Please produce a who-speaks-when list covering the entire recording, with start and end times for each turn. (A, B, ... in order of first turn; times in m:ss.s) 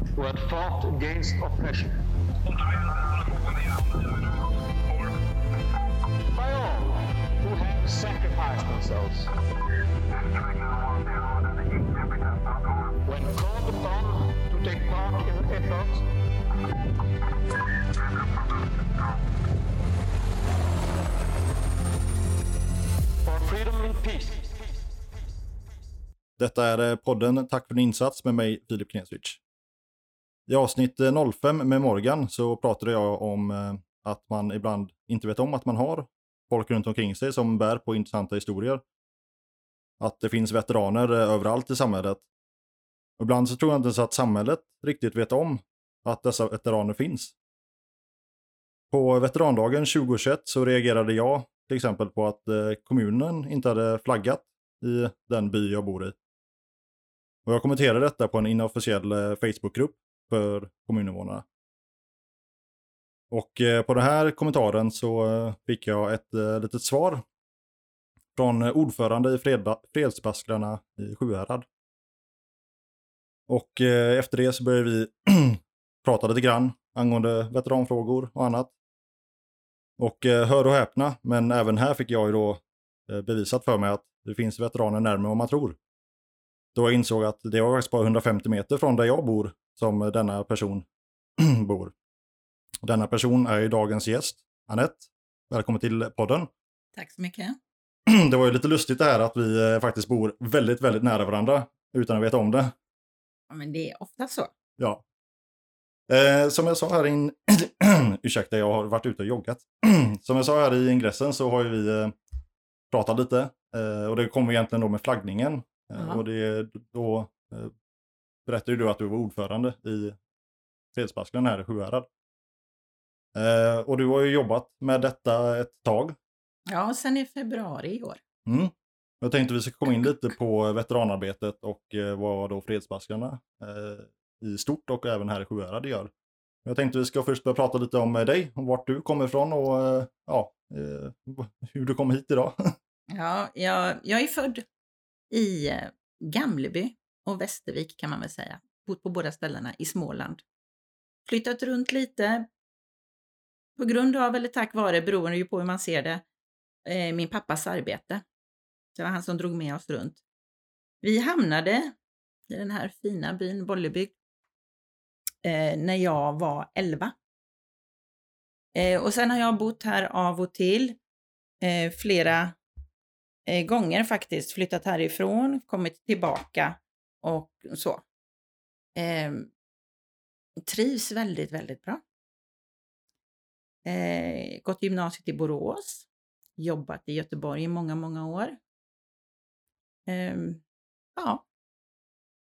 0:00.2-0:04.4 A
0:06.2-0:09.3 A
0:10.1-0:16.1 A
0:17.8-0:18.8 A
0:23.2-0:24.5 A
0:26.4-0:29.4 B
0:30.5-0:38.8 B
0:40.0-0:42.2 B
0:43.2-0:47.3 B
0:48.9-0:56.1 B
0:57.4-1:01.4 B
1:03.3-1:07.2 B
1:08.3-1:11.6 B
1:13.5-1:18.7 B
1:20.0-1:25.8 B
1:26.7-1:30.8 B
1:31.4-1:31.9 B
1:32.8-1:36.5 B
1:36.9-1:37.6 C
1:38.1-1:42.7 B
1:43.5-1:44.5 C
1:44.8-1:45.0 B
1:46.1-1:52.1 B
1:52.9-1:57.7 B
1:58.4-2:00.2 B
2:00.9-2:02.1 B
2:03.3-2:06.2 B
2:06.7-2:08.2 C
2:08.4-2:16.1 B
2:16.6-2:22.7 B
2:23.1-2:24.6 C
2:25.3-2:30.4 C
2:31.3-2:32.5 C
2:33.8-2:36.2 C
2:36.8-2:38.2 C
2:38.9-2:40.2 C
2:41.0-2:42.0 C
2:42.5-2:44.1 C
2:45.4-2:47.1 C
2:48.7-2:51.0 C
2:51.6-2:52.6 C
2:53.5-2:58.0 C
2:59.0-2:59.5 C
3:00.6-3:02.0 C
3:03.8-3:08.6 C
3:10.1-3:10.6 C
3:11.2-3:11.4 C